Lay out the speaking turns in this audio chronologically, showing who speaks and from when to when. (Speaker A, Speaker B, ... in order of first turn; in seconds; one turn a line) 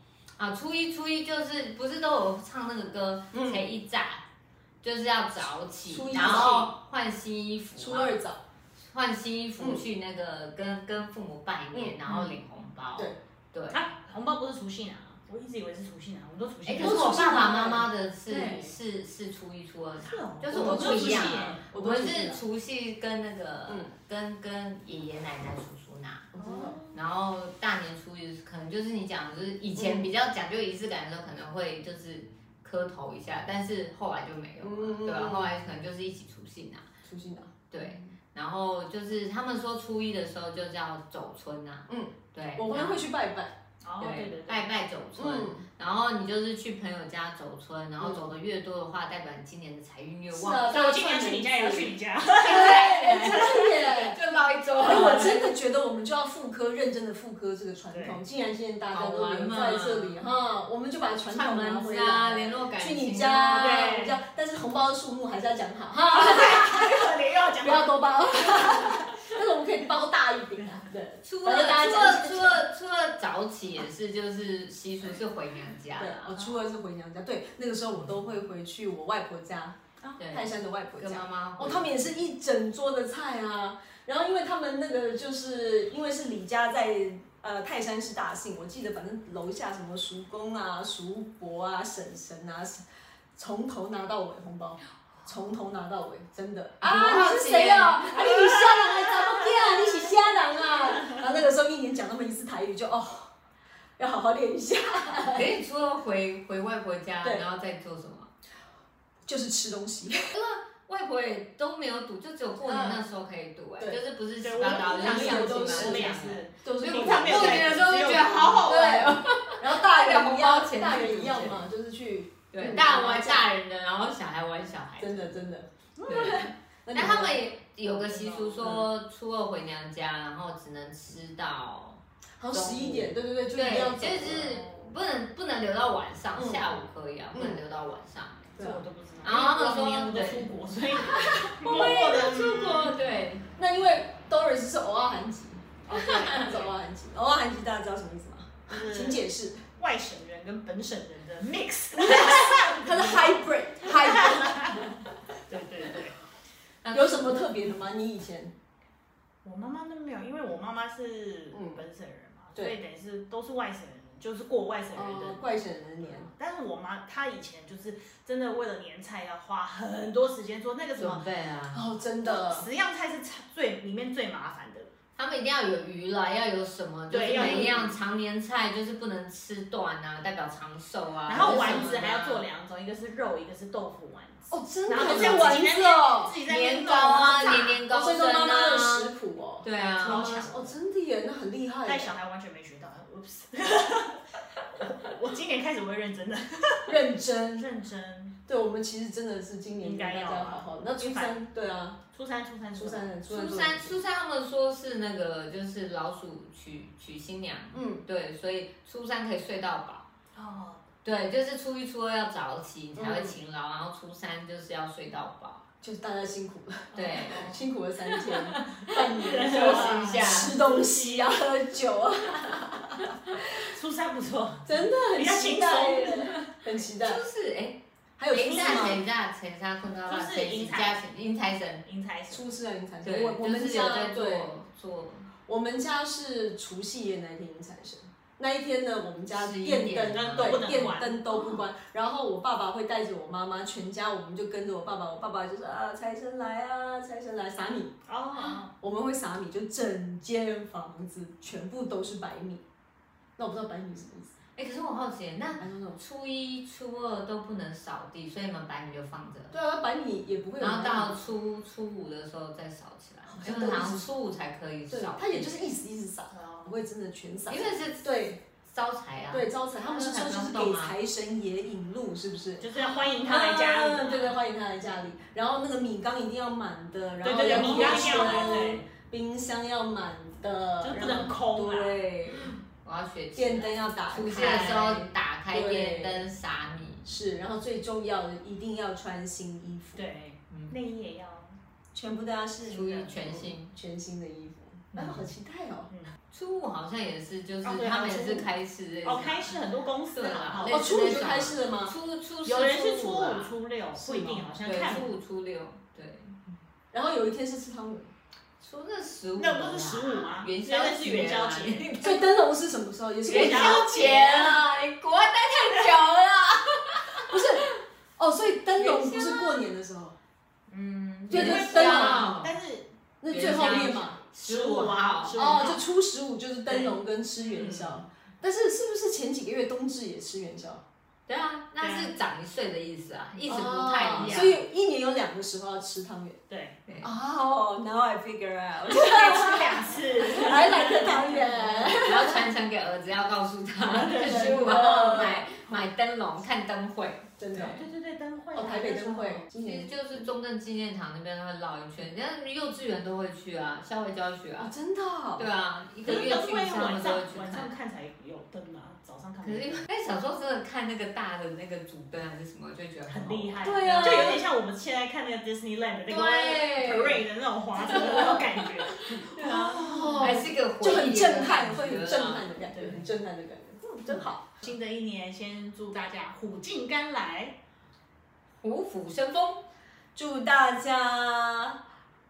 Speaker A: 0.4-4.2
Speaker B: 3.3-3.7
Speaker A: 4.8-8.2
Speaker B: 5.9-6.7
Speaker C: 6.1-6.8
Speaker B: 7.8-8.4
Speaker A: 8.8-13.8
Speaker B: 9.6-9.8
Speaker B: 11.7-12.0
Speaker C: 13.7-17.6
Speaker A: 16.6-36.9
Speaker B: 16.8-18.7
Speaker C: 19.9-21.6
Speaker B: 20.5-22.4
Speaker B: 23.6-23.9
Speaker B: 26.3-26.7
Speaker C: 26.4-27.0
Speaker B: 29.8-30.1
Speaker B: 34.6-35.5
Speaker B: 37.0-38.1
Speaker A: 37.7-43.1
Speaker B: 41.9-43.5
Speaker C: 43.8-44.7
Speaker A: 44.0-50.8
Speaker B: 45.2-45.6
Speaker B: 48.0-48.3
Speaker B: 50.3-54.2
Speaker C: 50.7-53.5
Speaker A: 52.4-55.5
Speaker B: 54.8-67.1
Speaker C: 57.9-58.2
Speaker A: 58.9-60.2
Speaker A: 61.1-64.0
Speaker C: 63.5-64.2
Speaker C: 66.1-69.2
Speaker B: 67.6-72.6
Speaker A: 71.2-76.3
Speaker B: 76.0-79.8
Speaker C: 76.3-76.6
Speaker A: 80.2-82.0
Speaker B: 80.3-92.8
Speaker B: 93.3-103.3
Speaker A: 96.8-98.9
Speaker B: 104.0-105.5
Speaker A: 105.3-108.3
Speaker B: 107.2-107.5
Speaker B: 109.2-110.3
Speaker A: 110.3-121.6
Speaker B: 112.7-113.0
Speaker C: 114.4-118.8
Speaker B: 114.5-117.8
Speaker B: 118.6-123.5
Speaker A: 122.5-125.4
Speaker B: 125.0-127.5
Speaker A: 126.1-132.0
Speaker C: 127.8-128.7
Speaker B: 128.6-128.9
Speaker B: 132.4-134.5
Speaker A: 132.5-138.4
Speaker C: 134.2-134.9
Speaker B: 136.3-136.7
Speaker B: 137.3-137.6
Speaker C: 138.6-143.0
Speaker B: 138.6-138.8
Speaker A: 139.2-140.5
Speaker A: 141.1-143.4
Speaker B: 143.5-149.6
Speaker A: 145.9-146.5
Speaker C: 148.7-149.2
Speaker C: 149.8-154.8
Speaker B: 152.0-155.0
Speaker C: 155.5-156.1
Speaker A: 156.8-157.5
Speaker B: 156.9-158.5
Speaker C: 159.4-165.4
Speaker B: 161.5-161.8
Speaker B: 164.9-166.3
Speaker C: 166.0-171.2
Speaker A: 171.0-171.8
Speaker B: 171.7-172.7
Speaker C: 172.2-174.9
Speaker A: 175.2-182.4
Speaker C: 177.1-177.9
Speaker C: 181.2-187.8
Speaker B: 181.4-182.0
Speaker B: 184.5-186.4
Speaker A: 185.0-185.5
Speaker A: 186.4-190.3
Speaker B: 187.9-192.2
Speaker C: 189.7-190.8
Speaker C: 191.8-198.3
Speaker B: 196.8-197.7
Speaker B: 198.4-202.0
Speaker C: 199.8-201.4
Speaker C: 202.1-203.1
Speaker B: 202.7-204.0
Speaker A: 203.3-210.1
Speaker B: 207.7-208.0
Speaker C: 210.3-210.8
Speaker A: 211.0-215.6
Speaker B: 212.9-213.4
Speaker B: 215.8-223.5
Speaker C: 216.9-217.6
Speaker A: 216.9-217.5
Speaker C: 218.8-221.3
Speaker A: 219.3-220.6
Speaker C: 223.7-226.8
Speaker B: 224.6-227.2
Speaker A: 227.0-227.8
Speaker B: 228.2-229.0
Speaker A: 228.3-231.8
Speaker C: 228.4-229.0
Speaker C: 229.8-231.1
Speaker C: 231.8-232.5
Speaker B: 232.3-234.5
Speaker A: 233.0-235.3
Speaker B: 235.4-247.9
Speaker A: 239.3-240.8
Speaker C: 240.1-241.6
Speaker C: 248.1-248.7
Speaker B: 248.8-252.6
Speaker B: 253.4-254.3
Speaker A: 254.6-259.5
Speaker B: 255.6-256.0
Speaker B: 259.5-261.2
Speaker A: 260.6-265.8
Speaker B: 263.3-264.1
Speaker B: 264.9-268.4
Speaker C: 266.3-266.8
Speaker A: 267.5-271.0
Speaker B: 269.3-282.6
Speaker C: 272.6-274.4
Speaker C: 277.2-278.8
Speaker A: 277.5-278.2
Speaker C: 280.8-282.0
Speaker A: 282.8-287.0
Speaker B: 283.3-286.3
Speaker B: 287.0-290.0
Speaker C: 289.9-291.5
Speaker B: 291.9-295.9
Speaker A: 292.6-293.7
Speaker A: 294.9-295.2
Speaker A: 296.3-303.5
Speaker C: 297.6-298.5
Speaker B: 298.1-298.4
Speaker C: 299.0-300.9
Speaker B: 300.6-301.9
Speaker C: 302.4-305.1
Speaker B: 303.9-304.7
Speaker A: 304.6-306.4
Speaker B: 306.9-308.1
Speaker A: 308.6-312.3
Speaker C: 309.4-311.9
Speaker B: 312.0-314.3
Speaker C: 313.2-314.6
Speaker A: 313.2-317.4
Speaker B: 317.3-320.1
Speaker A: 318.8-319.7
Speaker C: 320.7-325.9
Speaker B: 321.3-322.4
Speaker A: 321.3-322.5
Speaker B: 323.2-324.2
Speaker A: 323.3-325.8
Speaker B: 325.3-330.8
Speaker C: 326.7-326.9
Speaker A: 327.6-327.9
Speaker A: 331.3-334.6
Speaker C: 331.8-332.1
Speaker B: 333.5-336.4
Speaker C: 334.0-334.5
Speaker C: 336.5-336.8
Speaker B: 337.0-342.5
Speaker C: 339.1-341.9
Speaker A: 341.6-347.8
Speaker B: 343.9-345.4
Speaker C: 344.1-344.6
Speaker B: 347.4-347.8
Speaker C: 347.5-349.5
Speaker B: 348.5-350.3
Speaker A: 349.5-354.7
Speaker B: 354.6-355.5
Speaker A: 355.4-357.7
Speaker C: 356.0-359.9
Speaker A: 359.4-364.2
Speaker C: 363.1-370.3
Speaker B: 363.6-364.4
Speaker A: 366.1-367.2
Speaker B: 366.8-367.1
Speaker A: 367.9-368.4
Speaker B: 369.4-374.6
Speaker A: 369.4-373.0
Speaker C: 374.5-377.5
Speaker A: 378.6-379.6
Speaker B: 380.1-381.8